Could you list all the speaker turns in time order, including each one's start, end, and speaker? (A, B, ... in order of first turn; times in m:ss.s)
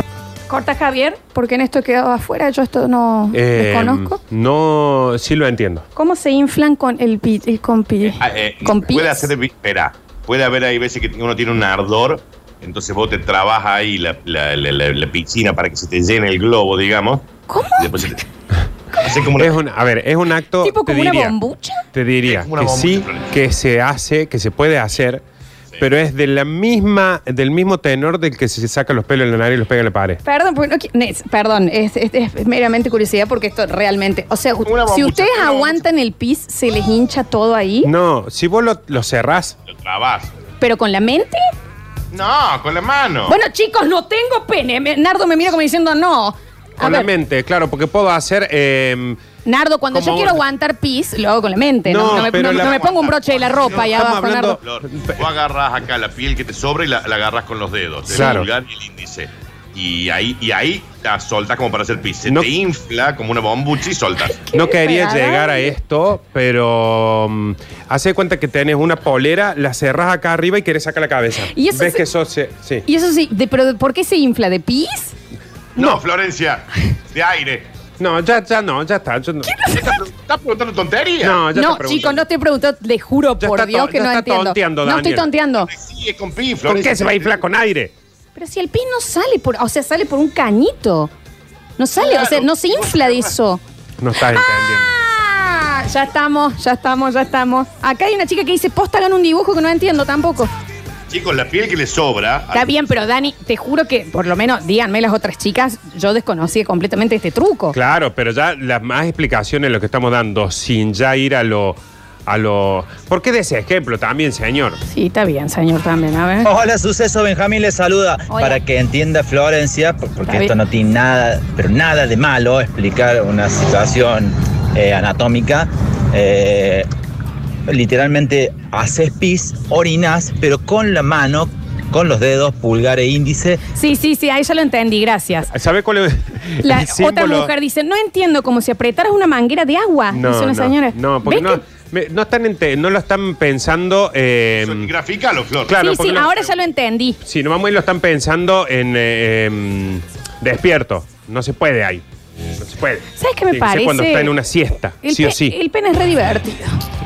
0:00.5-0:04.2 A
0:03.3-0:05.8 B
0:06.0-0:09.3 A
0:08.2-0:18.2 C
0:17.5-0:18.2 A
0:19.0-0:19.5 C
0:19.4-0:21.4 B
0:20.6-0:21.8 A
0:21.9-0:25.2 B
0:22.2-0:23.4 C
0:25.8-0:30.2 B
0:30.2-0:37.9 A
0:34.6-0:35.8 C
0:37.8-0:39.5 B
0:39.7-0:40.3 C
0:40.6-0:41.4 A
0:42.1-0:43.4 C
0:43.3-0:47.1 A
0:46.8-0:49.2 B
0:49.4-0:54.6 A
0:49.9-0:50.4 B
0:51.8-0:52.8 B
0:52.0-1:04.4 C
0:53.6-0:55.2 B
0:58.1-0:58.5 B
1:04.4-1:05.7 A
1:04.5-1:12.8 B
1:11.5-1:12.0 A
1:12.9-1:15.1 A
1:15.8-1:17.6 C
1:18.0-1:19.6 B
1:19.4-1:19.9 A
1:19.7-1:21.4 C
1:21.2-1:22.3 B
1:21.5-1:25.7 A
1:23.4-1:25.3 B
1:25.6-1:27.4 C
1:26.6-1:27.9 B
1:28.4-1:31.1 A
1:31.8-1:33.6 A
1:32.0-1:33.3 C
1:34.0-1:34.9 B
1:34.3-1:40.5 A
1:41.1-1:42.9 C
1:42.5-1:47.7 A
1:47.7-1:54.8 B
1:54.9-1:56.5 A
1:56.4-2:06.9 D
1:58.3-1:58.6 A
2:00.2-2:00.5 A
2:07.7-2:13.6 D
2:13.7-2:15.5 A
2:15.5-2:17.5 B
2:16.6-2:21.6 A
2:20.1-2:24.9 B
2:24.6-2:26.5 C
2:25.7-2:26.3 B
2:25.7-2:27.2 A
2:27.2-2:32.0 B
2:32.6-2:35.6 B
2:33.2-2:34.3 A
2:35.0-2:36.8 A